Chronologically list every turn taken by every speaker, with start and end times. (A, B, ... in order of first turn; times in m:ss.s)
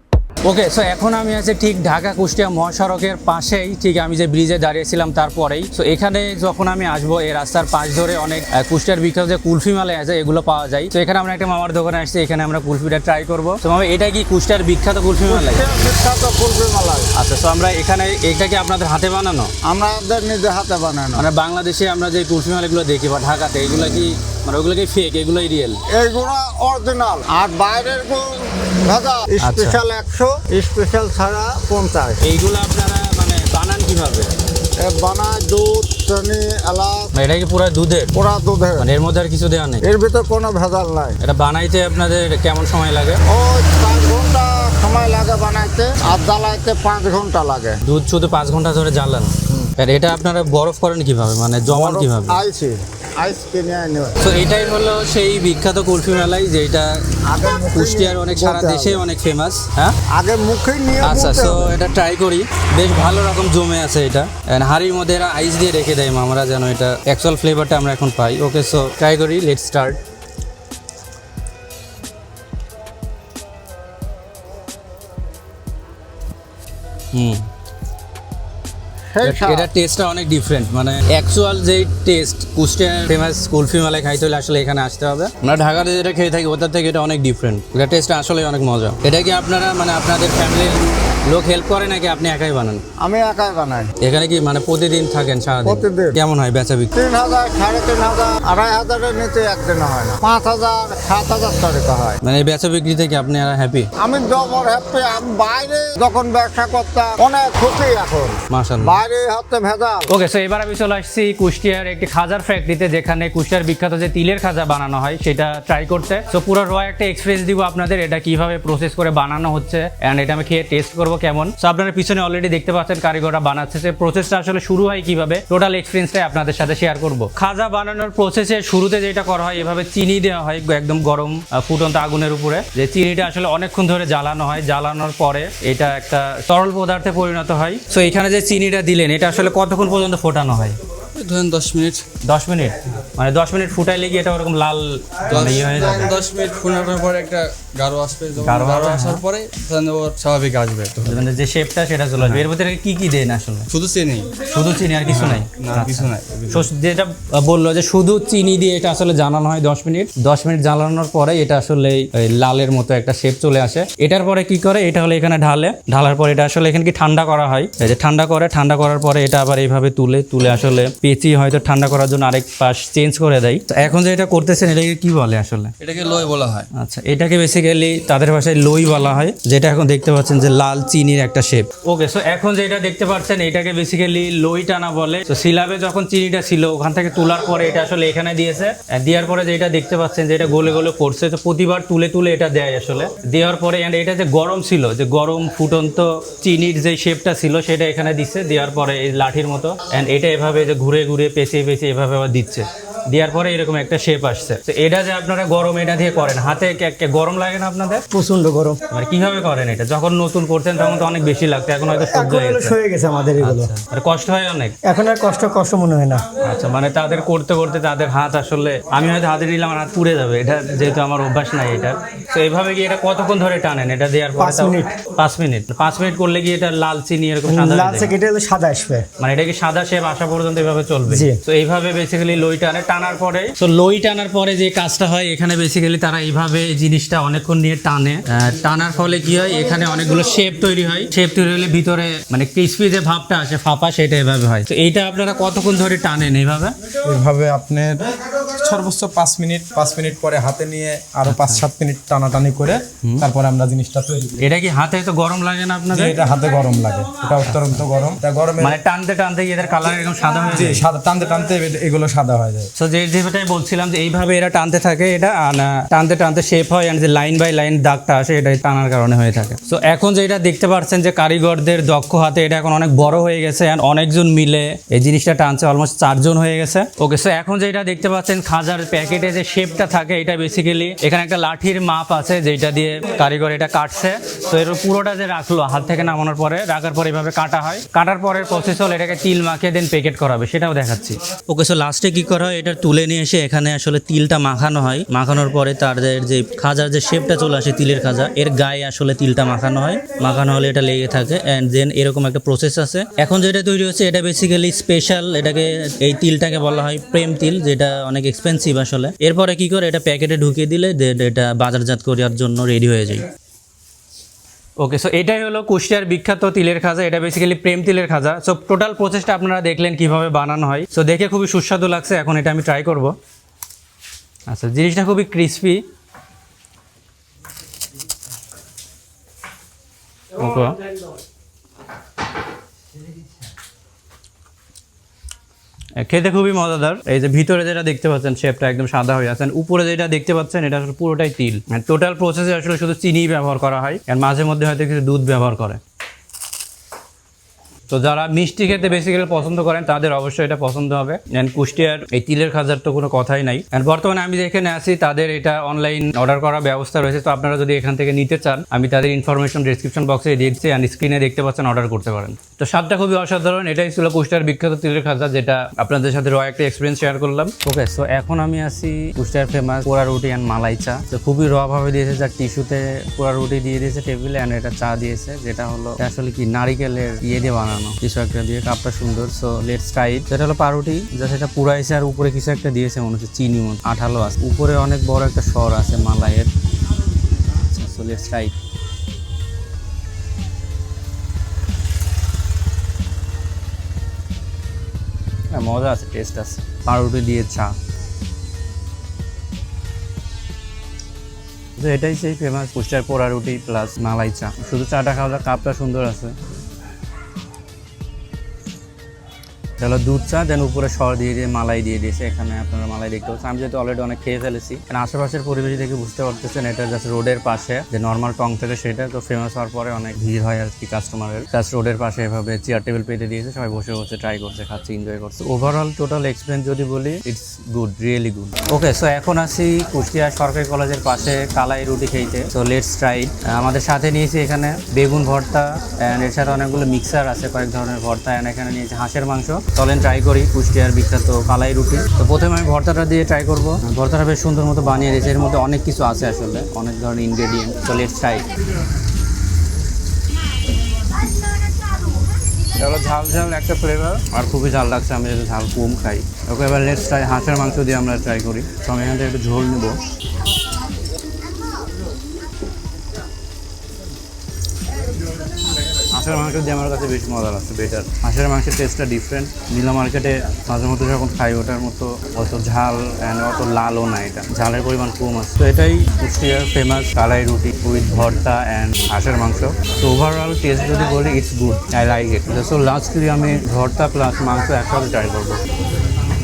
0:00.4-0:15.7 A
0:15.2-0:17.1 B
0:17.1-0:19.5 A
0:19.6-0:21.2 B
0:21.1-0:25.8 A
0:25.9-0:32.2 B
0:29.4-0:29.8 A
0:32.2-0:34.3 A
0:34.8-0:37.1 B
0:37.1-0:38.1 A
0:38.1-0:38.8 B
0:38.8-0:39.8 A
0:39.8-0:41.2 B
0:41.2-0:43.2 A
0:43.2-0:47.8 B
0:47.8-0:52.4 A
0:51.7-0:54.2 B
0:54.2-0:57.0 A
0:57.2-0:59.0 B
0:57.7-1:00.0 A
1:00.1-1:01.8 B
1:01.0-1:10.0 A
1:17.1-1:17.5 A
1:19.1-1:19.7 B
1:19.2-1:32.8 A
1:33.0-1:33.9 B
1:34.0-1:36.9 A
1:35.6-1:36.2 B
1:36.9-1:42.2 B
1:42.2-1:43.9 A
1:44.0-1:50.1 B
1:48.5-1:49.0 A
1:50.1-2:20.8 A
2:21.1-2:22.0 C
2:22.2-2:26.1 A
2:25.3-2:31.2 C
2:28.4-2:29.2 A
2:31.0-2:33.7 A
2:32.2-2:32.4 C
2:33.7-2:34.4 C
2:34.4-2:55.7 A
2:35.1-2:36.7 C
2:55.8-2:56.7 C
2:56.7-3:28.0 A
3:28.1-3:28.8 D
3:28.9-3:32.8 A
3:31.9-3:33.7 D
3:33.4-3:34.8 A
3:34.8-3:36.3 D
3:36.4-3:48.1 A
3:44.4-3:44.9 D
3:47.4-3:49.1 D
3:49.2-4:06.8 A
3:51.1-3:51.4 D
4:07.0-4:14.4 E
4:11.2-4:11.6 A
4:14.4-4:16.2 A
4:15.9-4:18.8 E
4:17.4-4:17.9 A
4:18.6-4:20.9 A
4:20.5-4:22.7 E
4:22.8-5:13.2 A
5:14.8-5:23.1 A
5:24.5-5:25.8 A
5:30.3-5:30.9 A
5:36.0-5:45.8 A
5:47.9-6:26.5 A
6:27.7-6:28.6 A
6:35.5-6:37.8 A
6:41.8-6:46.4 A
6:49.8-7:28.5 A
7:32.7-7:40.0 A
7:46.1-8:05.6 A